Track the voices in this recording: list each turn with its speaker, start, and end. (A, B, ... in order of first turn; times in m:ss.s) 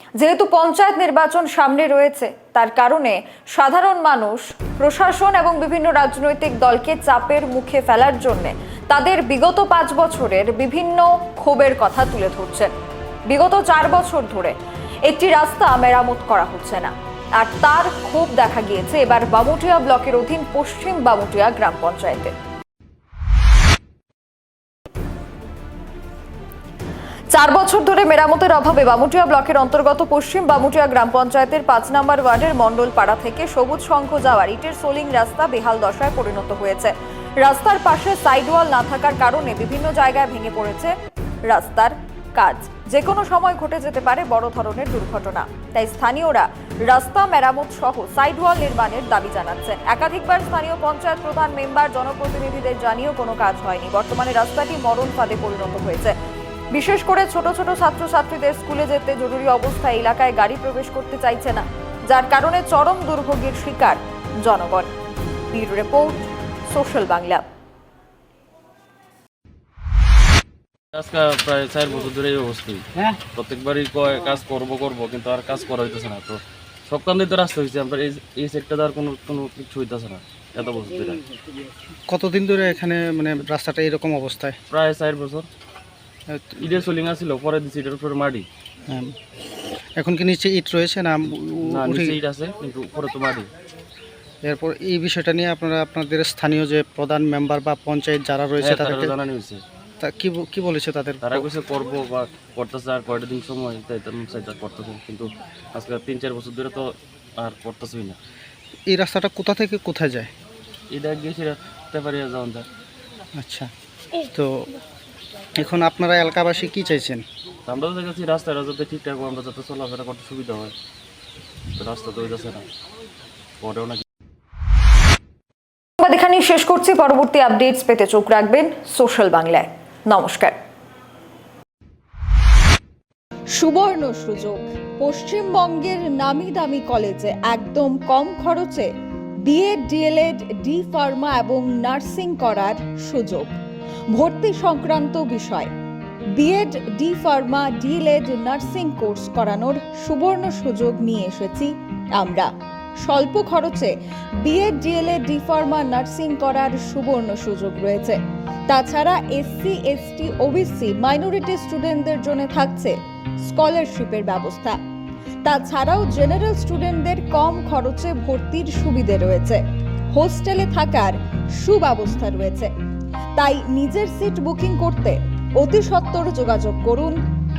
0:00.2-0:12.7 A
0:13.3-0:22.4 A
0:27.3-0:40.9 A
0:41.5-0:56.2 A
0:56.7-1:04.9 A
1:05.5-1:07.4 A
1:10.9-1:21.2 B
1:22.1-1:24.6 C
1:24.7-1:25.5 B
1:26.6-1:28.5 B
1:28.9-1:29.2 C
1:30.0-1:32.2 C
1:31.6-1:33.5 B
1:34.4-1:39.2 C
1:38.6-1:39.6 B
1:40.0-1:41.5 C
1:41.2-1:48.2 B
1:48.9-1:50.3 C
1:50.9-1:52.7 B
1:53.4-1:53.7 C
1:54.2-1:54.7 C
1:55.6-1:57.2 C
1:57.7-2:00.7 B
2:01.8-2:02.6 B
2:03.6-2:04.0 B
2:06.0-2:10.6 A
2:13.5-2:18.9 A
2:19.4-2:23.6 A
2:24.1-2:25.7 A
2:26.4-2:32.5 A
2:33.0-2:44.8 A
2:45.4-2:52.7 A
2:53.4-2:57.2 A